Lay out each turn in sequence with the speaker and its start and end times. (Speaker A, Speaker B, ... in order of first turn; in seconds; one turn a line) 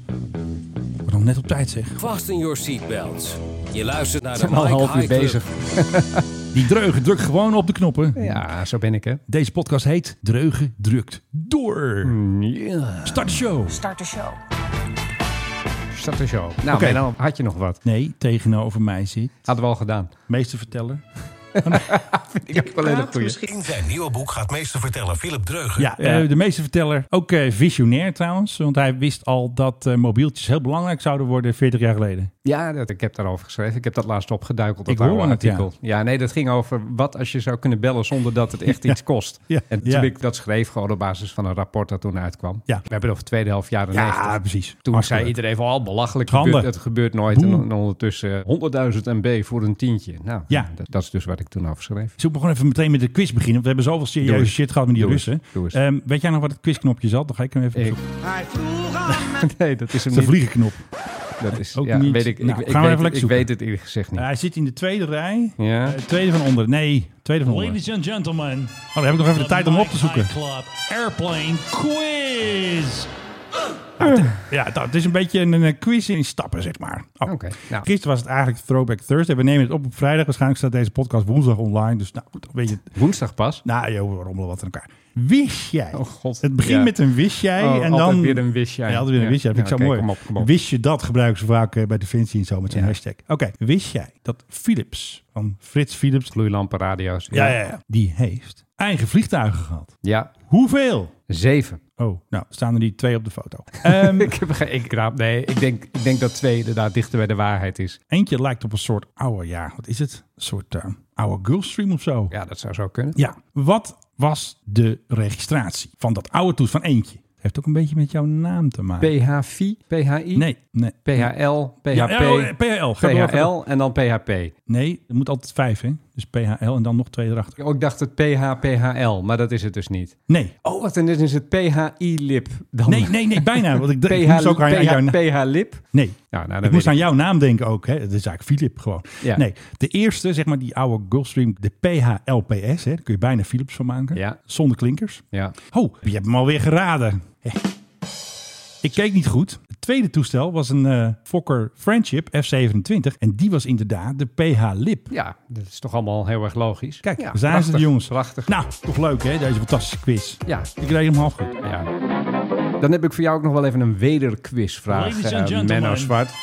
Speaker A: 1.1-2.0
Speaker B: 1.9-5.4
Speaker C: 4.4-6.3
Speaker A: 6.5-8.4
Speaker C: 8.2-9.2
Speaker A: 9.3-12.2
Speaker C: 12.0-13.4
Speaker A: 13.1-13.8
Speaker C: 15.9-17.8
Speaker A: 16.7-17.0
Speaker A: 17.9-19.5
Speaker C: 19.4-20.1
Speaker A: 20.3-21.0
Speaker C: 21.6-23.4
Speaker A: 21.6-22.0
Speaker B: 23.0-25.9
Speaker A: 25.8-32.3
Speaker C: 26.0-26.3
Speaker C: 32.5-52.2
Speaker A: 34.9-35.7
Speaker A: 38.7-39.0
Speaker A: 39.5-40.1
Speaker A: 43.9-45.4
Speaker A: 46.3-46.7
Speaker A: 47.3-47.7
Speaker A: 52.2-58.2
Speaker C: 54.2-55.8
Speaker C: 57.8-60.4
Speaker A: 59.1-59.4
Speaker A: 60.0-60.8
Speaker C: 61.4-64.3
Speaker A: 61.5-63.5
Speaker A: 64.2-67.8
Speaker C: 65.6-66.0
Speaker D: 67.5-73.1
Speaker A: 68.7-70.3
Speaker C: 74.0-74.4
Speaker A: 74.0-82.9
Speaker C: 77.3-77.9
Speaker C: 82.9-83.6
Speaker A: 83.6-96.3
Speaker C: 85.9-86.9
Speaker C: 87.6-90.5
Speaker C: 96.3-97.6
Speaker A: 97.3-99.9
Speaker C: 100.0-100.3
Speaker A: 100.5-101.1
Speaker C: 101.3-101.8
Speaker A: 102.0-104.4
Speaker C: 103.8-108.0
Speaker A: 108.1-112.3
Speaker C: 112.3-113.2
Speaker A: 113.2-119.1
Speaker C: 119.0-120.5
Speaker A: 120.3-121.3
Speaker C: 121.0-124.5
Speaker A: 121.9-123.5
Speaker A: 124.7-127.6
Speaker C: 127.6-137.0
Speaker A: 130.3-130.6
Speaker A: 132.9-135.2
Speaker A: 135.9-147.6
Speaker C: 144.1-144.4
Speaker A: 148.8-155.1
Speaker C: 155.1-158.5
Speaker A: 157.0-161.6
Speaker C: 161.6-161.9
Speaker C: 162.8-166.3
Speaker D: 164.9-166.2